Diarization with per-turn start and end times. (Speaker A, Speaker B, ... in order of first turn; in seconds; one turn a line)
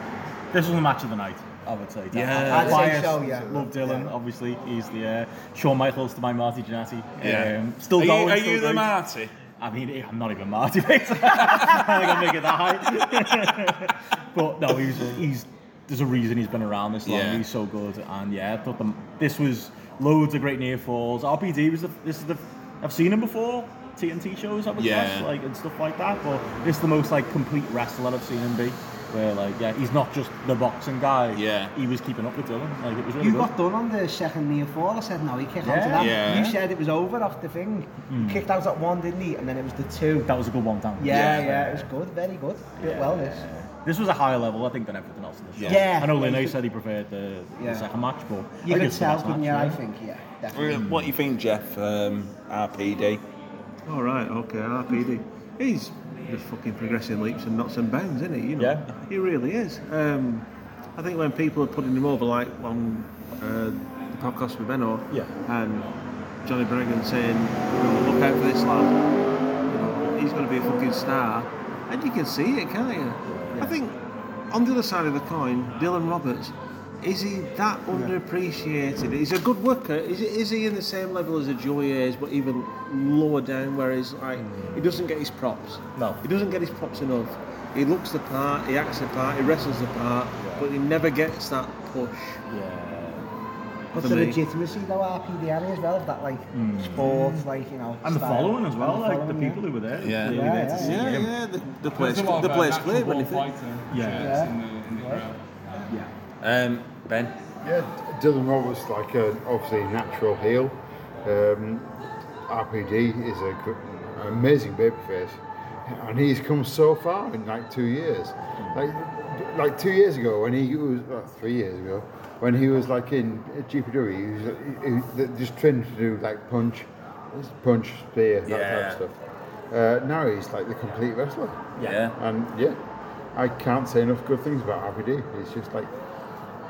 Speaker A: 0.5-9.0
Speaker B: 2.1-3.1
Speaker C: 2.5-4.1
Speaker D: 3.2-3.7
Speaker B: 7.2-9.3
Speaker A: 9.6-33.5
Speaker B: 17.1-17.4
Speaker B: 24.8-25.3
Speaker B: 31.3-31.7
Speaker C: 33.2-40.3
Speaker A: 35.6-36.5
Speaker B: 36.0-36.6
Speaker A: 38.1-38.4
Speaker A: 40.3-41.9
Speaker C: 41.0-43.5
Speaker B: 41.1-41.5
Speaker A: 42.8-49.8
Speaker B: 45.6-46.0
Speaker C: 45.7-46.6
Speaker C: 47.6-47.9
Speaker C: 48.6-50.8
Speaker B: 50.5-53.2
Speaker A: 50.7-51.1
Speaker E: 53.9-65.9
Speaker A: 58.6-58.9
Speaker E: 66.4-69.0
Speaker E: 69.7-74.0
Speaker A: 73.3-73.8
Speaker E: 74.5-92.4
Speaker A: 84.4-84.8
Speaker A: 86.0-86.2
Speaker A: 90.4-90.7
Speaker A: 92.5-93.2
Speaker A: 94.0-94.4
Speaker C: 94.0-99.7
Speaker E: 94.0-94.4
Speaker A: 96.5-97.5
Speaker A: 98.0-101.3
Speaker B: 100.0-100.6
Speaker C: 100.2-101.1
Speaker E: 100.7-103.5
Speaker F: 101.9-105.4
Speaker A: 103.9-104.4
Speaker C: 104.2-105.2
Speaker B: 106.4-107.3
Speaker D: 107.6-111.9
Speaker D: 112.5-129.1
Speaker B: 128.5-129.0
Speaker D: 129.7-132.8
Speaker B: 131.8-132.2
Speaker D: 133.3-135.9